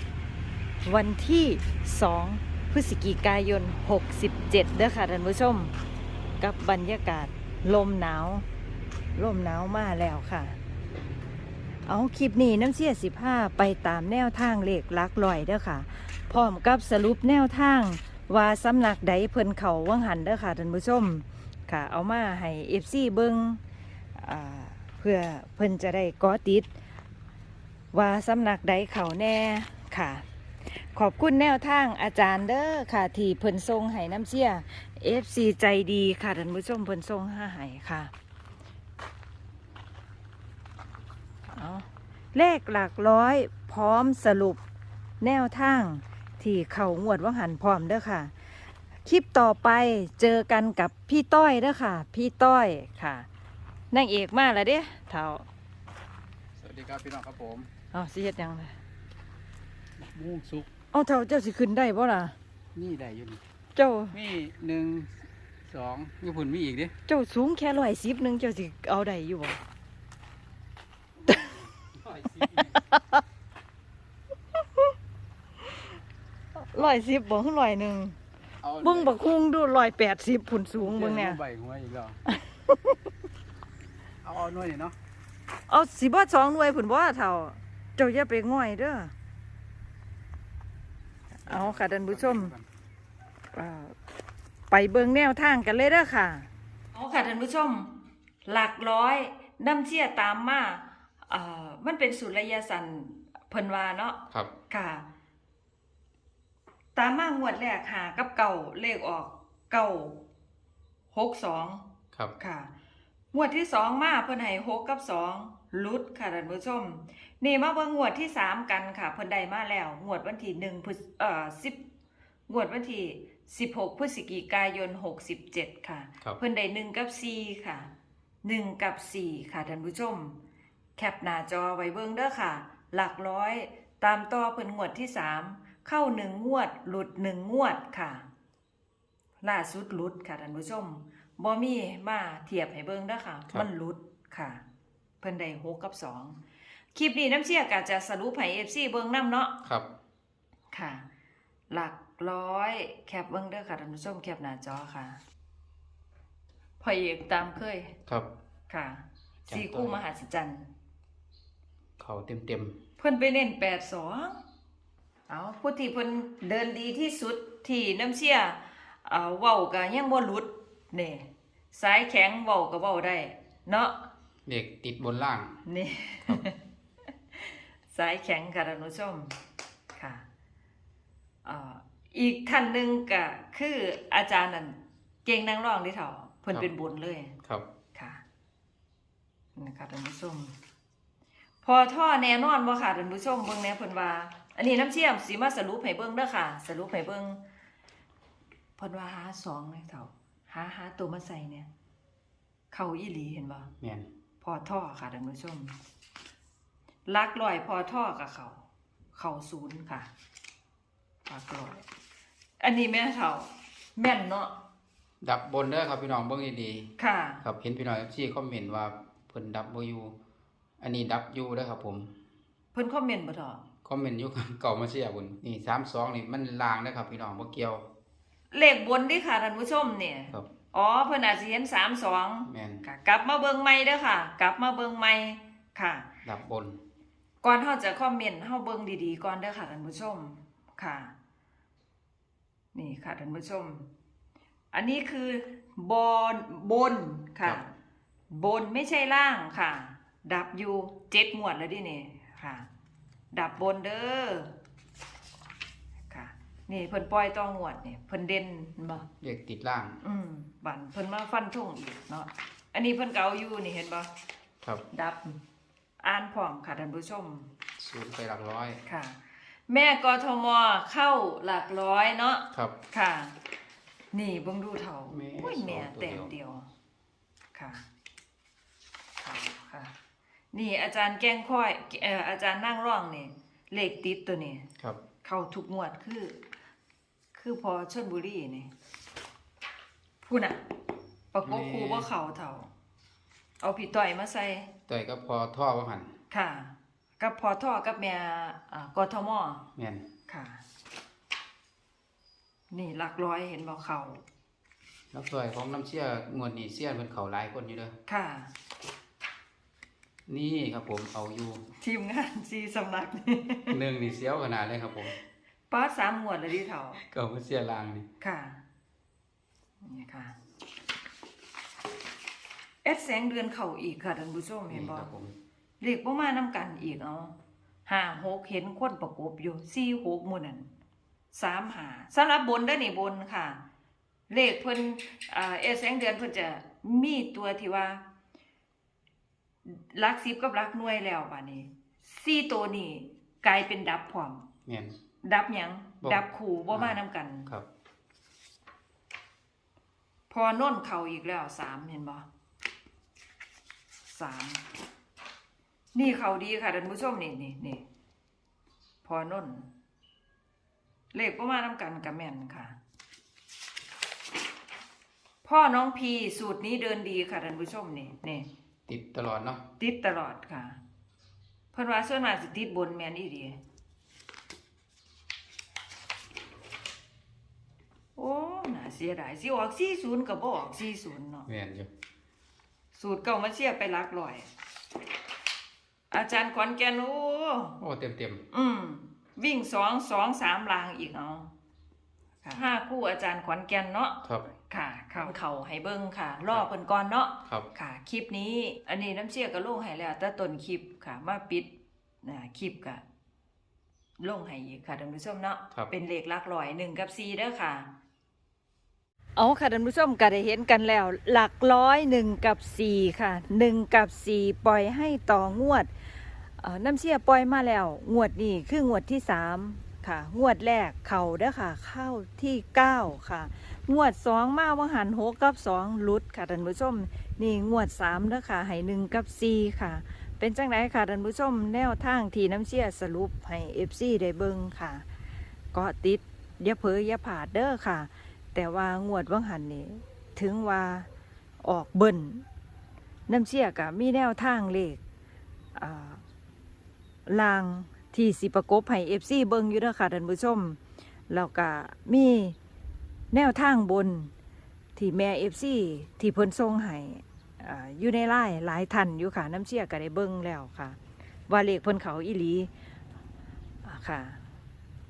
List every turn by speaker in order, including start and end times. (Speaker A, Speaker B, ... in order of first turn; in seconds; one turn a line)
Speaker A: 0.8-5.7
Speaker A: 6.4-8.4
Speaker A: 9.1-10.6
Speaker A: 11.9-23.6
Speaker A: 24.1-26.7
Speaker A: 27.9-38.1
Speaker A: 41.5-44.6
Speaker A: 45.2-48.3
Speaker A: 49.0-53.3
Speaker A: 53.9-55.5
Speaker B: 56.6-57.7
Speaker A: 57.9-58.7
Speaker B: 60.0-60.7
Speaker A: 60.9-62.3
Speaker B: 62.7-63.4
Speaker A: 63.7-64.2
Speaker B: 64.1-66.9
Speaker A: 67.1-69.6
Speaker B: 71.3-72.7
Speaker A: 72.5-73.2
Speaker A: 74.5-74.9
Speaker A: 76.5-78.2
Speaker B: 78.6-79.1
Speaker A: 78.8-81.4
Speaker B: 80.8-82.2
Speaker A: 82.3-83.0
Speaker B: 84.2-84.9
Speaker A: 85.7-89.1
Speaker A: 91.4-92.5
Speaker B: 91.5-92.6
Speaker A: 93.5-94.0
Speaker A: 94.7-97.9
Speaker A: 98.4-105.0
Speaker A: 106.9-110.2
Speaker A: 111.1-111.8
Speaker A: 112.4-112.7
Speaker A: 113.3-121.8
Speaker A: 122.5-127.9
Speaker A: 128.4-130.4
Speaker A: 131.0-138.2
Speaker A: 139.4-144.6
Speaker A: 145.2-146.4
Speaker A: 146.9-149.5
Speaker A: 150.7-151.0
Speaker A: 151.7-155.2
Speaker A: 156.8-157.9
Speaker A: 158.7-160.7
Speaker B: 159.5-160.0
Speaker B: 162.0-162.8
Speaker A: 163.0-164.4
Speaker A: 165.3-174.1
Speaker B: 174.4-175.5
Speaker A: 175.7-176.6
Speaker A: 177.3-179.3
Speaker A: 179.9-180.2
Speaker A: 181.4-187.3
Speaker A: 187.9-188.2
Speaker A: 189.6-190.5
Speaker A: 191.6-197.4
Speaker A: 198.8-201.7
Speaker A: 202.7-203.7
Speaker B: 203.8-204.1
Speaker A: 204.4-205.8
Speaker A: 207.1-208.6
Speaker A: 209.1-210.1
Speaker A: 211.3-211.8
Speaker A: 212.6-214.5
Speaker B: 215.2-220.1
Speaker A: 217.0-217.4
Speaker B: 220.8-222.1
Speaker A: 222.7-223.6
Speaker B: 223.8-227.8
Speaker A: 228.5-236.1
Speaker B: 232.5-232.8
Speaker B: 236.2-236.8
Speaker A: 237.4-241.1
Speaker A: 242.7-243.9
Speaker A: 244.7-247.7
Speaker A: 248.3-252.7
Speaker A: 253.3-254.5
Speaker A: 256.1-259.1
Speaker B: 259.2-260.0
Speaker A: 260.0-264.1
Speaker A: 264.9-265.4
Speaker A: 266.0-267.5
Speaker B: 267.8-268.8
Speaker A: 268.9-273.4
Speaker A: 274.1-276.7
Speaker B: 275.1-276.3
Speaker A: 277.5-277.8
Speaker A: 279.2-279.9
Speaker A: 280.5-284.6
Speaker A: 285.2-286.4
Speaker A: 287.3-288.7
Speaker A: 290.2-290.6
Speaker A: 291.3-292.7
Speaker B: 291.4-292.1
Speaker A: 293.6-294.7
Speaker B: 294.9-296.1
Speaker A: 296.3-299.6
Speaker B: 299.8-300.1
Speaker A: 300.3-300.6
Speaker A: 302.7-304.2
Speaker B: 305.1-307.9
Speaker A: 308.1-308.5
Speaker B: 310.3-311.6
Speaker A: 311.8-313.8
Speaker B: 313.7-315.1
Speaker A: 315.7-317.0
Speaker B: 317.1-318.1
Speaker A: 318.2-318.6
Speaker A: 319.8-320.4
Speaker A: 322.8-325.1
Speaker B: 324.7-325.3
Speaker A: 325.8-327.3
Speaker A: 327.9-330.7
Speaker A: 331.3-333.6
Speaker A: 334.3-338.0
Speaker A: 339.6-344.4
Speaker B: 344.6-344.9
Speaker A: 345.2-347.5
Speaker B: 346.0-347.6
Speaker A: 350.3-352.2
Speaker A: 354.1-354.6
Speaker A: 355.9-357.8
Speaker A: 359.0-359.7
Speaker A: 361.1-362.8
Speaker A: 365.4-368.5
Speaker B: 368.9-369.6
Speaker A: 369.8-370.8
Speaker A: 371.7-373.6
Speaker A: 378.1-381.5
Speaker B: 381.5-381.9
Speaker A: 382.9-384.5
Speaker A: 386.1-387.8
Speaker B: 387.8-388.4
Speaker A: 388.5-391.5
Speaker A: 392.4-401.7
Speaker B: 394.2-394.5
Speaker A: 402.2-403.0
Speaker A: 404.2-407.9
Speaker A: 409.4-415.9
Speaker A: 416.6-435.1
Speaker A: 435.7-441.1
Speaker A: 441.6-442.4
Speaker A: 443.3-445.0
Speaker A: 445.7-446.2
Speaker A: 447.2-450.8
Speaker A: 451.3-452.6
Speaker A: 453.3-454.3
Speaker A: 454.9-461.0
Speaker A: 461.5-462.7
Speaker A: 463.8-464.4